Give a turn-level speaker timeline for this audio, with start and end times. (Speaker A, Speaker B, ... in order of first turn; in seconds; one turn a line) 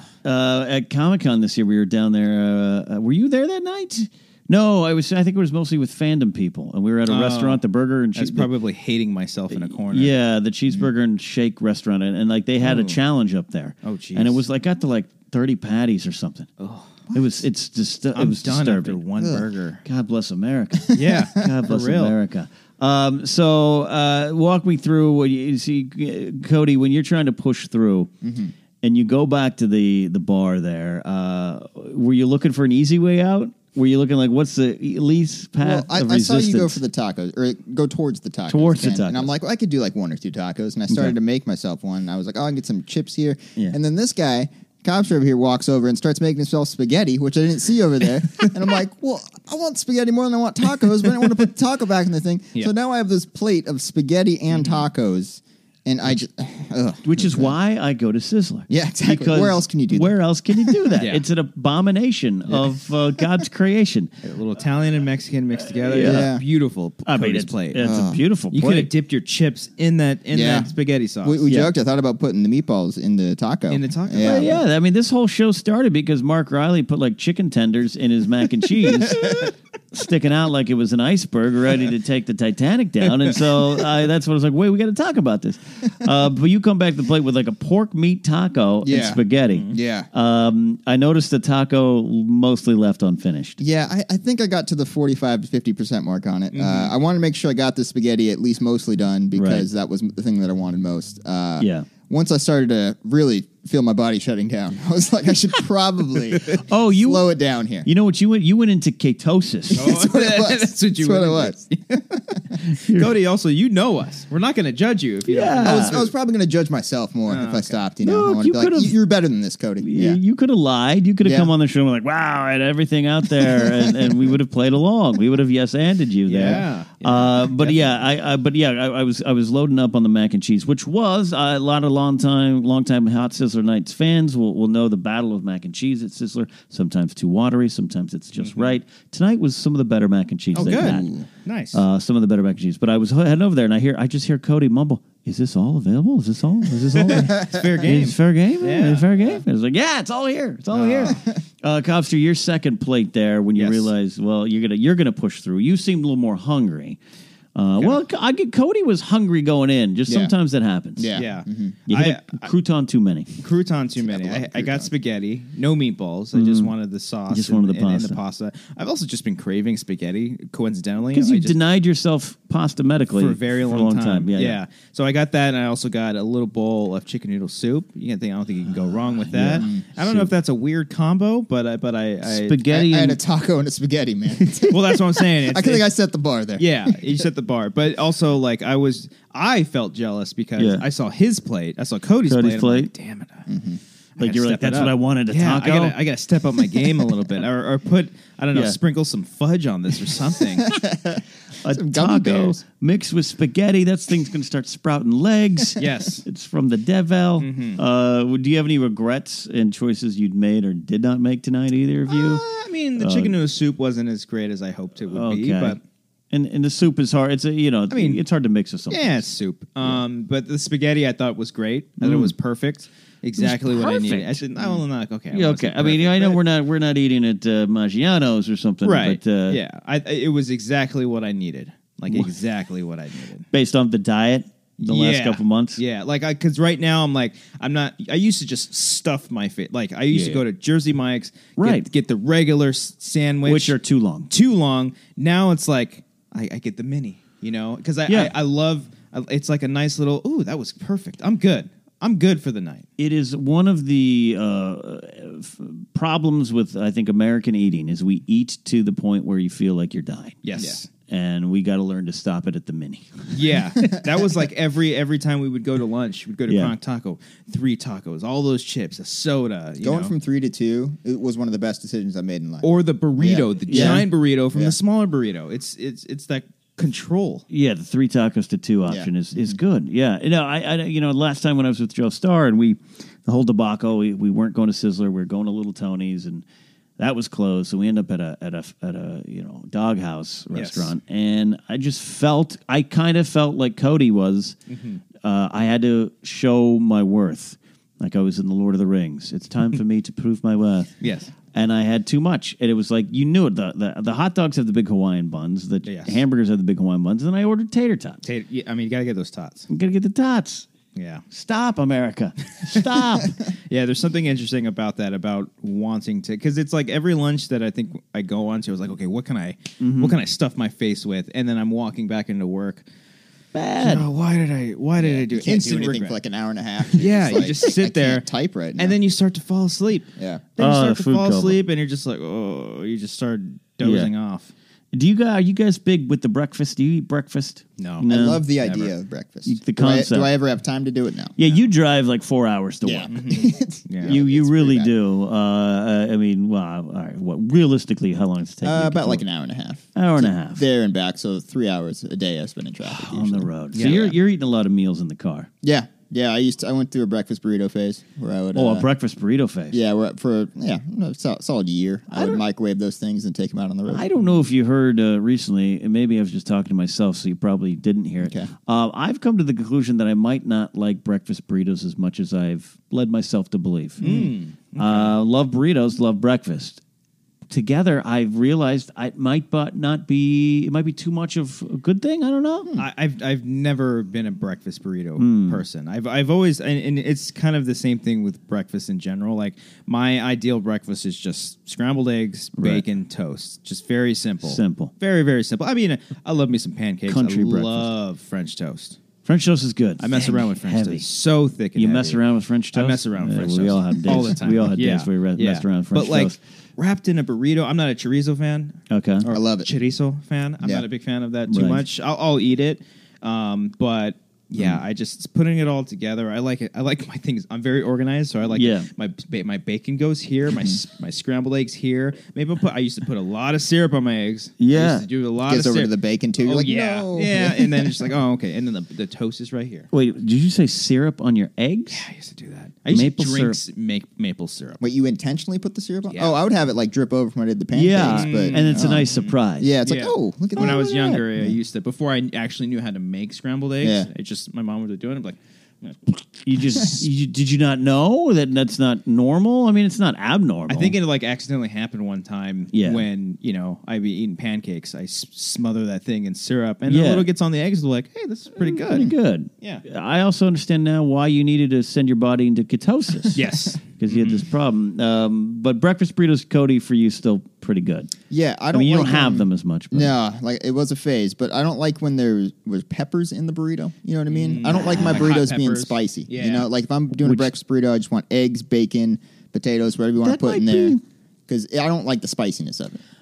Speaker A: 0.2-8.5
Speaker B: 7.1-7.6
Speaker B: 8.1-10.2
Speaker A: 9.5-16.5
Speaker B: 12.6-13.0
Speaker B: 13.8-14.4
Speaker B: 16.6-16.9
Speaker A: 17.1-19.0
Speaker B: 18.1-19.8
Speaker C: 19.2-19.4
Speaker A: 19.8-28.1
Speaker B: 20.9-22.1
Speaker C: 28.2-28.5
Speaker A: 28.8-36.8
Speaker C: 35.6-57.5
Speaker A: 38.5-39.3
Speaker A: 40.9-41.1
Speaker A: 57.0-64.1
Speaker C: 58.7-61.0
Speaker B: 61.0-61.2
Speaker B: 64.2-67.9
Speaker A: 65.8-66.3
Speaker C: 66.0-66.4
Speaker A: 67.0-68.9
Speaker C: 67.8-68.2
Speaker B: 68.5-71.4
Speaker C: 70.3-70.7
Speaker C: 71.2-74.6
Speaker B: 73.7-74.6
Speaker A: 74.2-93.6
Speaker C: 88.8-90.1
Speaker C: 93.6-107.9
Speaker B: 96.5-96.9
Speaker A: 99.3-99.7
Speaker A: 101.6-101.8
Speaker A: 106.6-107.3
Speaker A: 107.8-109.9
Speaker C: 109.7-112.4
Speaker B: 109.7-112.0
Speaker A: 112.7-113.1
Speaker B: 112.8-116.1
Speaker A: 115.3-116.0
Speaker C: 115.6-120.2
Speaker B: 117.3-117.8
Speaker A: 118.0-119.0
Speaker A: 119.8-141.1
Speaker C: 121.2-121.5
Speaker C: 123.4-124.1
Speaker B: 126.3-128.0
Speaker B: 138.4-138.8
Speaker B: 140.5-141.8
Speaker C: 140.8-141.2
Speaker A: 141.7-157.0
Speaker B: 147.0-149.4
Speaker C: 147.1-147.6
Speaker B: 150.7-151.2
Speaker B: 153.6-153.9
Speaker A: 157.5-161.2
Speaker C: 160.1-160.3
Speaker C: 161.0-161.7
Speaker B: 161.1-162.5
Speaker A: 161.9-163.3
Speaker B: 163.4-171.6
Speaker C: 164.0-164.9
Speaker A: 166.3-166.7
Speaker A: 167.3-168.2
Speaker A: 171.1-174.6
Speaker B: 173.1-182.7
Speaker A: 179.3-180.3
Speaker A: 182.2-183.2
Speaker C: 182.7-187.0
Speaker B: 184.7-185.9
Speaker B: 186.6-193.4
Speaker A: 190.6-190.8
Speaker A: 192.3-192.9
Speaker C: 193.5-193.8
Speaker A: 194.2-196.0
Speaker B: 194.2-200.7
Speaker C: 200.6-202.6
Speaker A: 201.6-212.4
Speaker B: 205.8-206.2
Speaker B: 207.4-207.8
Speaker B: 212.1-215.8
Speaker A: 213.0-213.4
Speaker A: 215.1-215.8
Speaker A: 216.3-219.2
Speaker B: 217.9-218.2
Speaker B: 218.9-226.4
Speaker A: 222.0-222.3
Speaker A: 223.4-224.8
Speaker A: 225.3-229.6
Speaker B: 228.8-233.4
Speaker A: 233.5-235.8
Speaker B: 234.8-243.8
Speaker A: 240.1-240.4
Speaker A: 241.6-241.9
Speaker A: 243.4-244.3
Speaker B: 244.3-252.9
Speaker A: 248.1-248.3
Speaker A: 253.0-260.4
Speaker B: 260.4-260.9
Speaker A: 261.1-263.3
Speaker B: 263.3-270.1
Speaker A: 266.5-266.7
Speaker C: 269.8-274.8
Speaker B: 272.6-277.4
Speaker A: 273.7-274.0
Speaker A: 277.5-286.4
Speaker C: 278.9-279.6
Speaker A: 287.0-294.6
Speaker B: 290.5-290.9
Speaker B: 294.7-295.0
Speaker A: 295.2-300.9
Speaker B: 301.0-301.3
Speaker A: 301.5-308.2
Speaker B: 305.8-306.2
Speaker B: 308.2-309.7
Speaker A: 309.7-310.7
Speaker B: 310.9-311.2
Speaker A: 311.3-313.3
Speaker B: 312.6-322.8
Speaker A: 319.8-320.2
Speaker A: 323.5-324.1
Speaker B: 323.8-326.2
Speaker C: 325.0-329.0
Speaker B: 326.9-328.2
Speaker B: 328.8-334.5
Speaker C: 330.2-330.4
Speaker A: 330.6-331.6
Speaker A: 333.8-334.1
Speaker A: 334.9-338.4
Speaker B: 337.8-338.0
Speaker C: 338.1-341.4
Speaker B: 338.6-338.9
Speaker A: 339.4-340.3
Speaker A: 341.4-343.1
Speaker C: 342.8-344.9
Speaker B: 343.1-344.2
Speaker A: 344.0-349.2
Speaker C: 348.6-353.9
Speaker A: 349.9-350.6
Speaker A: 352.8-355.5
Speaker B: 353.7-354.1
Speaker C: 355.6-358.9
Speaker A: 358.5-359.8
Speaker C: 359.7-364.1
Speaker A: 362.1-362.4
Speaker A: 363.9-374.2
Speaker C: 368.2-368.5
Speaker B: 374.0-375.2
Speaker C: 374.0-374.3
Speaker A: 374.8-376.8
Speaker A: 377.5-382.7
Speaker B: 382.8-399.0
Speaker A: 385.2-385.6
Speaker A: 392.6-392.8
Speaker A: 394.4-394.9
Speaker A: 397.1-397.9
Speaker A: 399.2-401.0
Speaker B: 400.0-402.2
Speaker A: 401.7-406.4
Speaker B: 402.7-429.9
Speaker A: 408.9-409.2
Speaker C: 409.3-409.7
Speaker A: 411.5-411.8
Speaker A: 418.5-418.9
Speaker A: 424.6-425.0
Speaker C: 425.4-428.1
Speaker A: 429.9-432.0
Speaker B: 431.9-434.8
Speaker A: 432.9-433.6
Speaker C: 434.8-441.6
Speaker B: 436.1-436.4
Speaker A: 437.7-439.7
Speaker B: 438.0-446.0
Speaker A: 440.6-441.2
Speaker C: 443.8-444.1
Speaker A: 446.4-450.9
Speaker B: 450.7-459.8
Speaker A: 452.7-453.0
Speaker A: 456.9-457.3
Speaker A: 458.6-468.1
Speaker B: 463.3-464.5
Speaker C: 468.3-481.0
Speaker A: 468.7-470.1
Speaker B: 474.3-476.7
Speaker A: 477.2-477.5
Speaker A: 480.2-481.0
Speaker C: 481.5-483.0